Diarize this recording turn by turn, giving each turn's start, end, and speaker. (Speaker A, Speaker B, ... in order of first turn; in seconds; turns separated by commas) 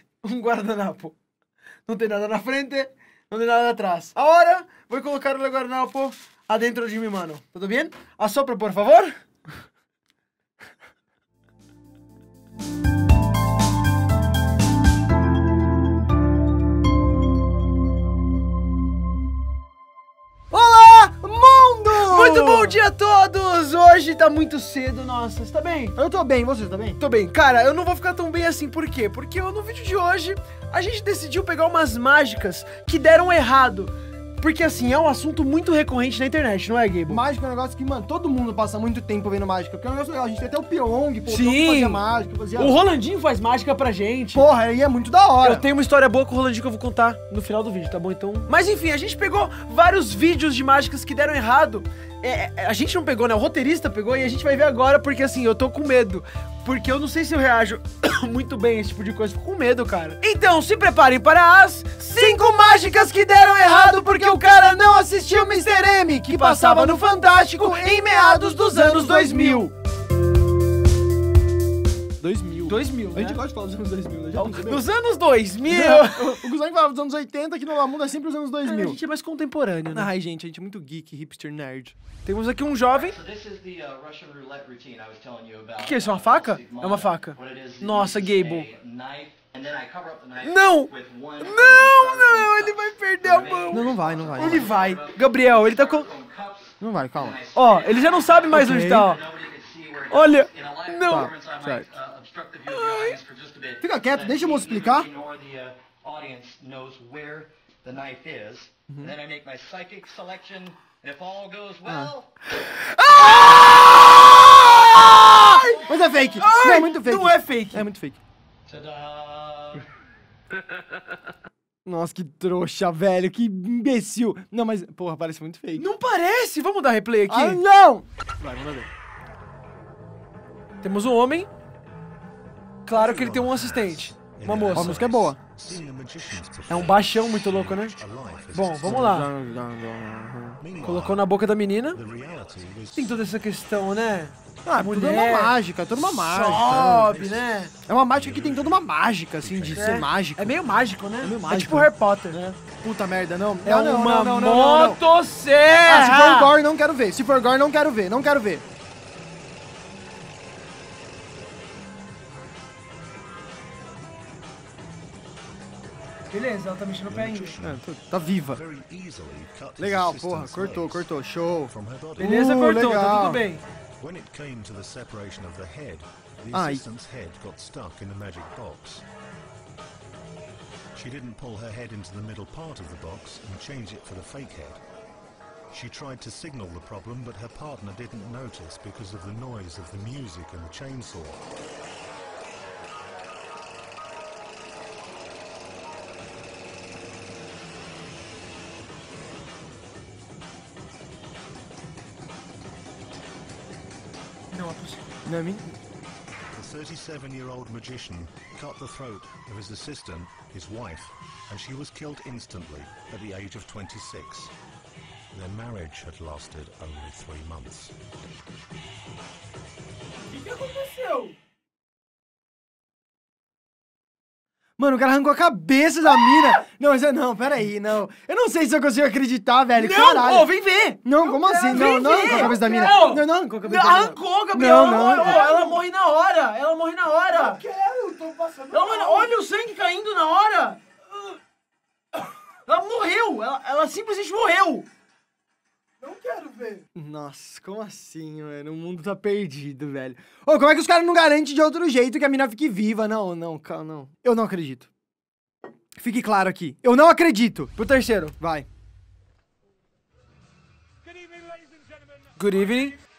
Speaker A: 0.2-1.1, Speaker A: 1.9-9.1, Speaker B: 20.5-22.8, Speaker A: 22.0-25.9, Speaker B: 25.9-27.0, Speaker A: 27.0-37.2, Speaker B: 37.1-42.7, Speaker A: 41.3-42.0, Speaker A: 42.5-44.4, Speaker B: 44.3-45.6, Speaker A: 45.4-69.7, Speaker B: 62.1-62.5, Speaker B: 63.6-69.7, Speaker B: 72.2-74.8, Speaker A: 72.7-73.4, Speaker A: 74.3-76.4, Speaker B: 75.7-79.0, Speaker A: 78.6-80.1, Speaker B: 79.8-82.0, Speaker A: 82.2-83.2, Speaker C: 82.9-112.3, Speaker A: 85.8-88.7, Speaker A: 90.4-96.1, Speaker B: 93.7-94.7, Speaker B: 96.8-97.4, Speaker A: 97.5-99.2, Speaker B: 98.5-99.1, Speaker A: 100.1-101.3, Speaker B: 101.0-101.9, Speaker A: 102.7-103.2, Speaker B: 103.8-105.1, Speaker B: 108.9-109.1, Speaker B: 111.8-112.1, Speaker A: 112.6-117.9, Speaker B: 115.0-118.2, Speaker C: 118.7-119.9, Speaker B: 121.8-125.9, Speaker A: 125.8-127.6, Speaker B: 127.3-128.9, Speaker A: 130.8-131.5, Speaker A: 132.8-135.1, Speaker D: 132.9-139.2, Speaker B: 134.7-135.4, Speaker A: 136.7-138.0, Speaker A: 138.5-139.3, Speaker B: 138.8-140.6, Speaker D: 140.6-141.3, Speaker A: 140.8-142.0, Speaker D: 141.9-143.2, Speaker A: 142.9-145.6, Speaker B: 144.6-147.2, Speaker D: 145.9-150.0, Speaker A: 146.3-147.7, Speaker B: 147.9-150.5, Speaker A: 149.7-152.4, Speaker B: 151.2-155.0, Speaker A: 153.6-156.5, Speaker B: 155.8-158.6, Speaker A: 166.3-167.5, Speaker D: 167.1-167.8, Speaker B: 167.6-168.6, Speaker D: 168.4-171.1, Speaker B: 169.8-173.4, Speaker D: 171.7-172.3, Speaker A: 172.2-173.6, Speaker D: 174.0-179.0, Speaker B: 176.5-176.8, Speaker D: 180.9-184.8, Speaker D: 185.7-191.4, Speaker A: 204.5-205.0, Speaker B: 205.2-205.7, Speaker D: 206.5-214.5, Speaker D: 215.3-217.9, Speaker A: 220.3-221.3, Speaker B: 224.8-230.5, Speaker A: 229.7-237.6, Speaker B: 231.0-235.8, Speaker B: 237.3-239.3, Speaker A: 238.7-240.8, Speaker A: 242.6-244.9, Speaker B: 246.0-254.9, Speaker B: 256.0-257.7, Speaker A: 257.8-258.3, Speaker B: 258.4-258.7, Speaker A: 262.3-263.0